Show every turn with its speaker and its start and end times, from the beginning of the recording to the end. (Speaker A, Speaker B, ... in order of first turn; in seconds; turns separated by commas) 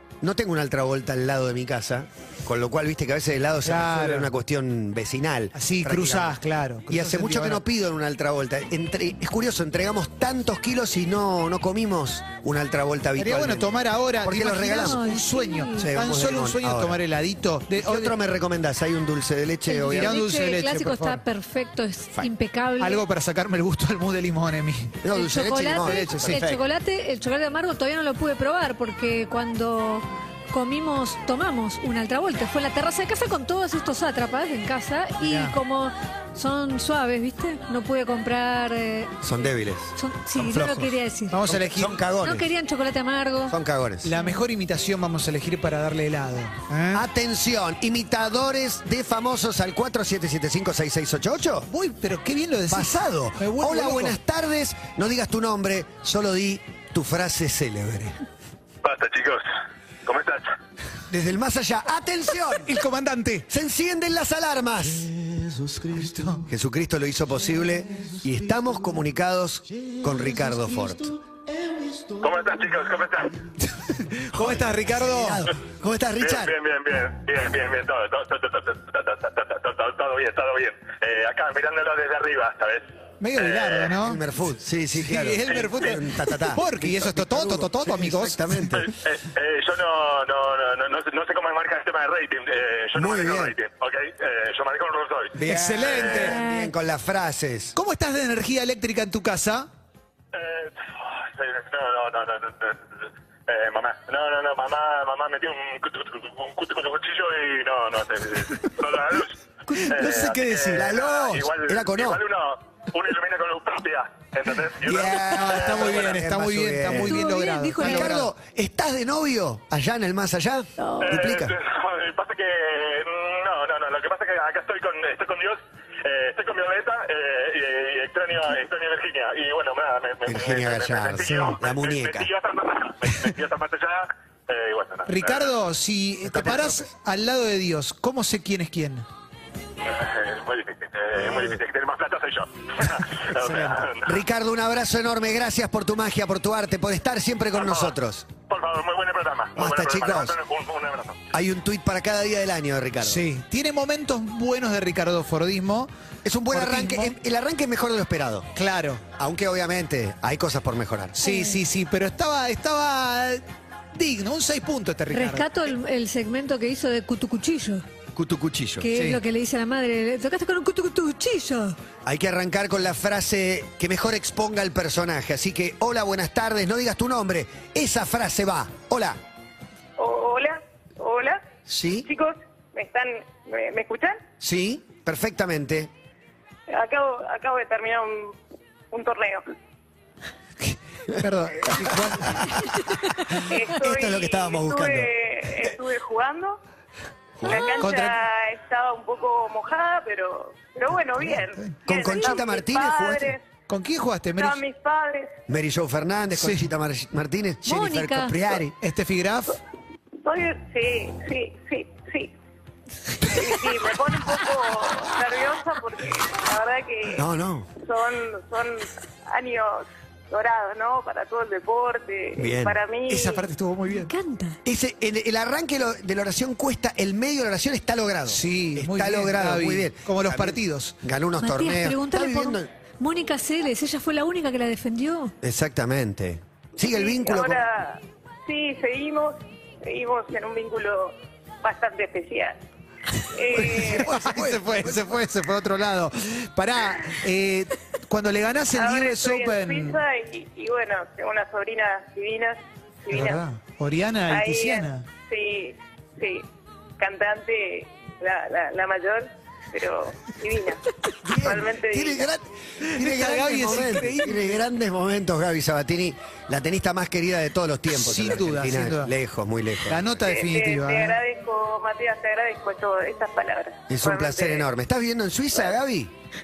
Speaker A: 0.2-6.4, Speaker B: 3.6-4.3, Speaker B: 5.5-7.6, Speaker A: 6.9-15.0, Speaker B: 13.2-18.1, Speaker C: 14.7-15.9, Speaker A: 15.8-17.0, Speaker A: 17.7-20.2, Speaker C: 19.7-23.0, Speaker B: 19.8-21.2, Speaker B: 22.8-25.0, Speaker A: 25.0-26.6, Speaker C: 25.1-39.1, Speaker B: 25.9-26.4, Speaker B: 35.2-35.5, Speaker A: 39.2-42.5, Speaker C: 40.0-41.4, Speaker B: 41.3-42.0, Speaker C: 42.2-43.5, Speaker A: 43.5-44.1, Speaker B: 44.0-47.0, Speaker C: 44.1-44.4, Speaker A: 46.9-51.7, Speaker B: 51.7-54.2, Speaker A: 52.7-58.2, Speaker D: 58.8-59.5, Speaker D: 60.0-60.5, Speaker A: 61.1-62.7, Speaker B: 62.6-63.5, Speaker A: 63.5-71.2, Speaker B: 66.0-66.4, Speaker D: 72.2-73.4, Speaker B: 73.6-75.5, Speaker A: 74.3-76.5, Speaker D: 76.2-82.8, Speaker B: 83.2-84.2, Speaker D: 83.3-83.9, Speaker A: 84.0-88.9, Speaker B: 84.9-88.7, Speaker D: 85.5-85.8, Speaker D: 88.7-96.3, Speaker A: 92.9-93.5, Speaker A: 95.3-97.7, Speaker B: 95.4-96.4, Speaker C: 96.3-96.7, Speaker B: 97.7-99.7, Speaker D: 100.3-116.2, Speaker B: 109.7-110.9, Speaker A: 109.9-112.2, Speaker A: 114.8-117.2, Speaker B: 115.2-118.3, Speaker C: 116.9-118.2, Speaker A: 117.8-121.5, Speaker C: 120.8-121.2, Speaker D: 121.0-135.5, Speaker A: 130.2-132.3, Speaker B: 131.2-131.5, Speaker B: 135.1-139.1, Speaker A: 136.2-136.9, Speaker D: 139.8-144.2, Speaker A: 143.4-148.3, Speaker D: 147.5-147.9, Speaker D: 148.5-151.2, Speaker A: 149.5-150.4, Speaker A: 151.3-153.2, Speaker B: 153.0-155.9, Speaker A: 156.2-158.5, Speaker B: 156.5-157.1, Speaker B: 158.5-159.0, Speaker A: 159.2-161.2, Speaker B: 161.1-163.4, Speaker C: 161.2-161.6, Speaker B: 163.9-165.5, Speaker C: 165.1-167.8, Speaker A: 168.1-168.9, Speaker C: 168.8-171.8, Speaker B: 168.9-169.2, Speaker A: 172.0-179.2, Speaker E: 180.0-181.4, Speaker A: 181.7-182.1, Speaker E: 182.0-184.2, Speaker A: 184.4-185.9, Speaker E: 186.7-188.3, Speaker E: 188.9-189.4, Speaker B: 190.6-192.7, Speaker A: 191.8-192.7, Speaker E: 193.4-196.6, Speaker A: 193.7-195.7, Speaker A: 197.4-197.8, Speaker E: 197.4-203.4, Speaker B: 197.8-198.2, Speaker A: 201.8-203.3, Speaker B: 203.7-204.6, Speaker E: 204.4-205.3, Speaker A: 205.5-208.7, Speaker B: 206.3-206.7, Speaker C: 207.6-208.4, Speaker B: 208.8-209.6, Speaker E: 210.2-212.3, Speaker E: 213.2-217.2, Speaker A: 217.1-217.7, Speaker E: 217.8-223.4, Speaker A: 222.4-222.8, Speaker B: 223.1-224.1, Speaker C: 223.9-224.6, Speaker A: 224.6-232.7, Speaker B: 228.3-230.9, Speaker C: 231.4-235.3, Speaker A: 235.4-237.6, Speaker E: 236.8-242.6, Speaker E: 243.3-244.1, Speaker A: 243.6-245.1, Speaker B: 243.6-250.0, Speaker E: 248.7-253.4, Speaker B: 253.1-255.0, Speaker E: 254.3-256.4, Speaker E: 257.0-260.8, Speaker A: 261.2-270.1, Speaker E: 261.4-262.3, Speaker B: 262.8-264.6, Speaker B: 267.9-269.1, Speaker B: 269.9-271.2, Speaker E: 270.2-274.7, Speaker A: 273.9-276.1